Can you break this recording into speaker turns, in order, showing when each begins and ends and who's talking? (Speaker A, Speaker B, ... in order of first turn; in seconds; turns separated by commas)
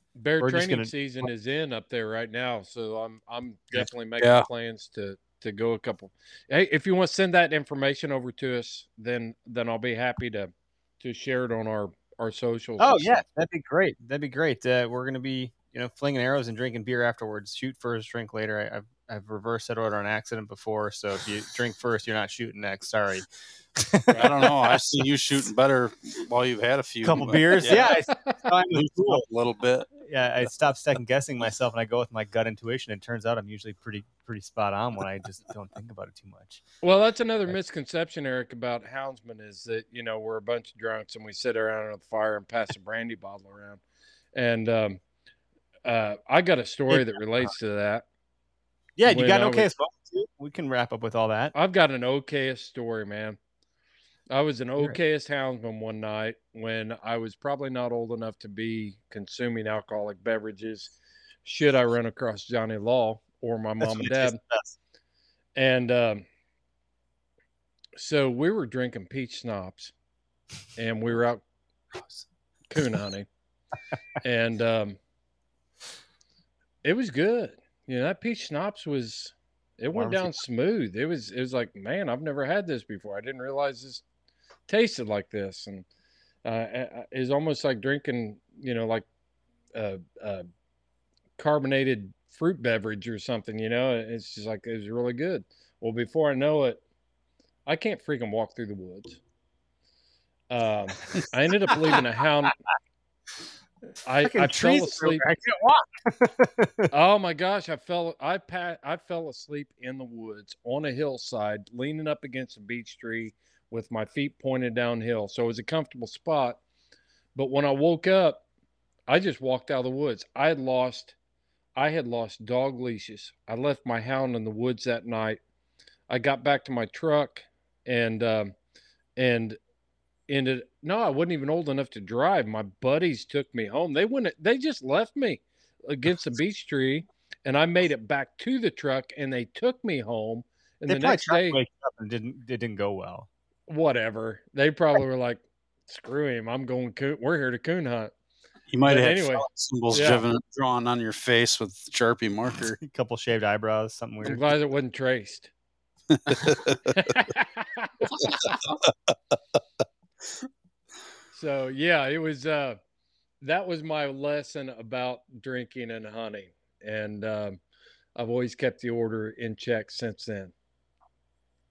Speaker A: 0.1-13.2, Speaker B: 0.4-0.9, Speaker C: 3.8-4.5, Speaker B: 12.8-24.4, Speaker C: 24.1-27.9, Speaker B: 27.0-29.2, Speaker A: 27.7-28.3, Speaker C: 28.7-29.9, Speaker B: 30.0-36.6, Speaker A: 36.8-43.8, Speaker A: 44.3-45.0, Speaker A: 45.8-48.0, Speaker B: 46.9-47.5, Speaker B: 49.0-51.5, Speaker A: 49.0-49.7, Speaker A: 51.5-53.4, Speaker A: 54.3-60.9, Speaker A: 61.4-64.4, Speaker B: 63.8-64.7, Speaker A: 65.5-66.2, Speaker A: 68.0-69.9, Speaker A: 70.8-71.4, Speaker A: 72.7-73.3, Speaker A: 74.2-75.0, Speaker A: 76.8-84.0, Speaker B: 79.9-80.3, Speaker A: 84.7-85.8, Speaker A: 86.4-89.0, Speaker A: 89.7-90.4, Speaker A: 91.4-96.8, Speaker A: 97.7-99.2, Speaker A: 100.5-102.6, Speaker A: 104.0-105.2, Speaker B: 104.2-106.9, Speaker A: 106.9-116.6, Speaker A: 117.3-118.4, Speaker A: 119.1-121.1, Speaker A: 121.8-125.4, Speaker A: 126.1-128.5, Speaker A: 129.2-129.6, Speaker A: 130.3-141.6, Speaker B: 140.9-143.3, Speaker A: 143.7-148.1, Speaker C: 148.7-152.8, Speaker A: 148.8-150.2, Speaker B: 152.8-154.5, Speaker A: 154.2-155.5, Speaker C: 156.1-156.8, Speaker A: 156.9-158.7, Speaker A: 161.3-162.8, Speaker A: 163.4-167.6, Speaker A: 168.2-170.5